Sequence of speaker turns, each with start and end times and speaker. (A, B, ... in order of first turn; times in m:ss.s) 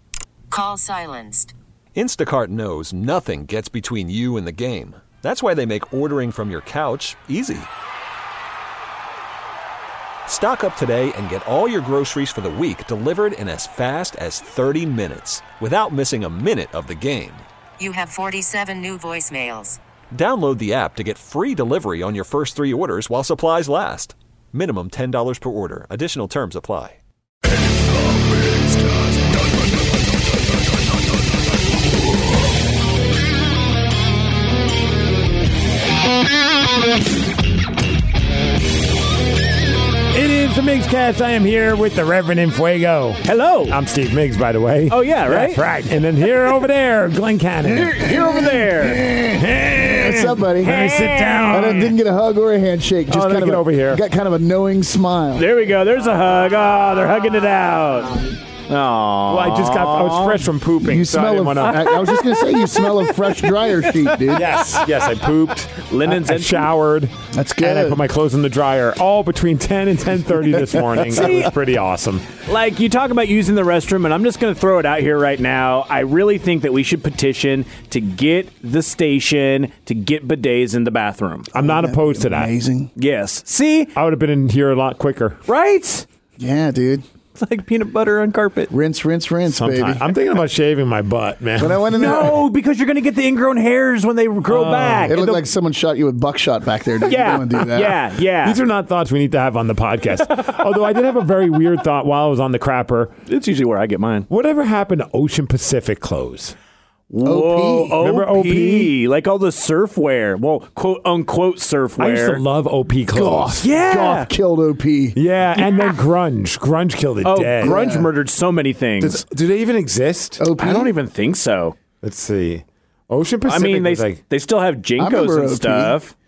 0:00.5-0:01.5 A
0:01.9-0:07.7 B
0:10.2-0:17.4 B
0:17.8-0:19.8 A
0:20.1-0:27.0 B
0:28.5-0:28.9 B
0:40.1-0:48.1 C
0:43.2-0:43.8 D
0:44.9-0:45.6 D
0:47.8-0:49.0 D
0:47.9-0:50.7 E
0:49.3-0:52.0 C
0:50.6-0:51.8 D
0:51.5-0:55.4 E
0:53.1-0:54.0 C
0:55.4-1:00.4 D
0:59.3-1:01.9 C
1:00.9-1:04.4 E
1:01.8-1:04.9 D
1:04.3-1:12.2 C
1:05.9-1:06.7 D
1:07.3-1:08.0 E
1:10.7-1:11.2 E
1:11.0-1:11.5 D
1:12.4-1:21.5 D
1:21.5-1:22.5 C
1:21.5-1:22.9 E
1:23.0-1:23.9 D
1:23.9-1:25.4 C
1:25.5-1:26.0 D
1:26.4-1:27.0 E
1:27.4-1:28.7 D
1:28.7-1:30.0 E
1:29.5-1:31.8 C
1:31.6-1:32.4 E
1:31.9-1:35.4 D
1:34.5-1:35.4 C
1:35.0-1:38.0 E
1:37.0-1:38.6 D
1:38.4-1:43.1 C
1:43.3-1:44.3 D
1:44.3-1:46.6 C
1:47.1-1:52.4 D
1:47.2-1:48.0 E
1:48.0-1:48.9 C
1:52.0-1:53.6 C
1:53.1-1:55.2 E
1:53.6-1:54.3 D
1:55.1-1:57.8 C
1:57.2-1:59.2 D
1:57.6-1:58.1 E
1:59.0-2:00.4 C
2:00.4-2:00.9 E
2:00.6-2:01.8 D
2:02.0-2:04.2 C
2:03.5-2:06.1 D
2:05.0-2:06.0 E